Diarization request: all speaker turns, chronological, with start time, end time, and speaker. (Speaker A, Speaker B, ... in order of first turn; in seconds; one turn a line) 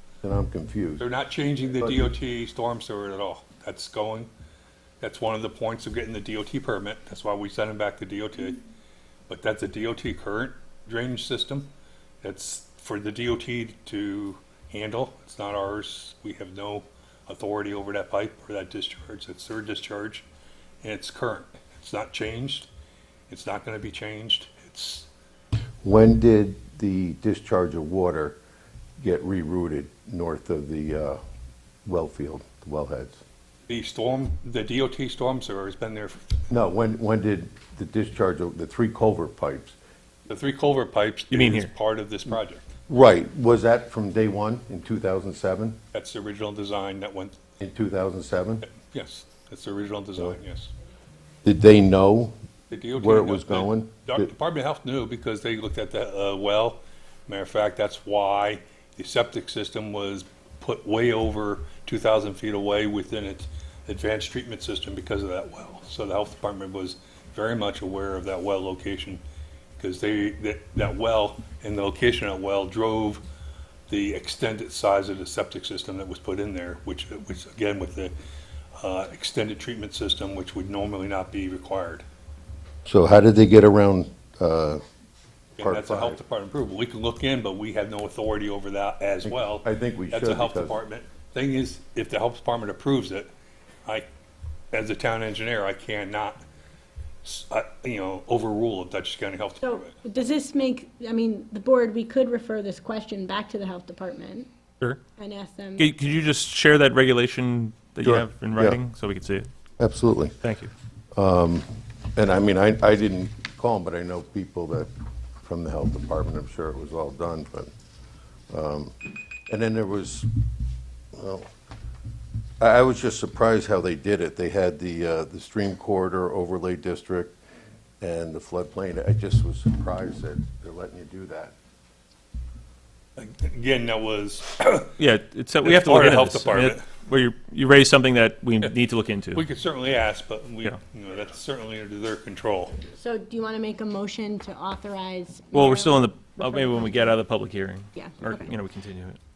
Speaker A: 0.2-1.1
Speaker B: 1.0-4.3
Speaker A: 1.8-2.1
Speaker B: 5.0-8.6
Speaker B: 9.3-11.7
Speaker B: 12.2-20.2
Speaker B: 20.8-22.7
Speaker B: 23.3-25.1
Speaker A: 25.8-28.4
Speaker A: 29.0-31.2
Speaker A: 31.8-33.2
Speaker B: 33.7-36.4
Speaker A: 36.5-39.8
Speaker B: 40.3-42.6
Speaker C: 41.3-41.7
Speaker A: 42.9-45.8
Speaker B: 45.9-47.4
Speaker A: 47.6-48.6
Speaker B: 48.7-50.7
Speaker A: 51.4-52.3
Speaker B: 52.7-69.2
Speaker A: 52.9-54.3
Speaker B: 69.8-73.2
Speaker B: 73.9-78.1
Speaker B: 78.8-82.0
Speaker A: 82.8-84.8
Speaker B: 85.6-93.3
Speaker A: 85.6-86.2
Speaker A: 89.2-90.8
Speaker B: 94.7-96.4
Speaker B: 97.2-99.9
Speaker D: 99.6-104.5
Speaker D: 105.2-105.9
Speaker C: 105.8-109.5
Speaker A: 108.0-108.8
Speaker A: 109.8-110.4
Speaker C: 110.4-110.7
Speaker A: 111.1-114.9
Speaker A: 115.4-117.7
Speaker A: 118.5-120.3
Speaker A: 121.1-121.5
Speaker A: 122.6-127.4
Speaker A: 128.0-131.5
Speaker B: 133.2-134.9
Speaker C: 135.0-139.4
Speaker B: 135.6-136.8
Speaker B: 139.3-142.8
Speaker D: 143.0-147.1
Speaker C: 145.5-149.2
Speaker D: 147.9-148.5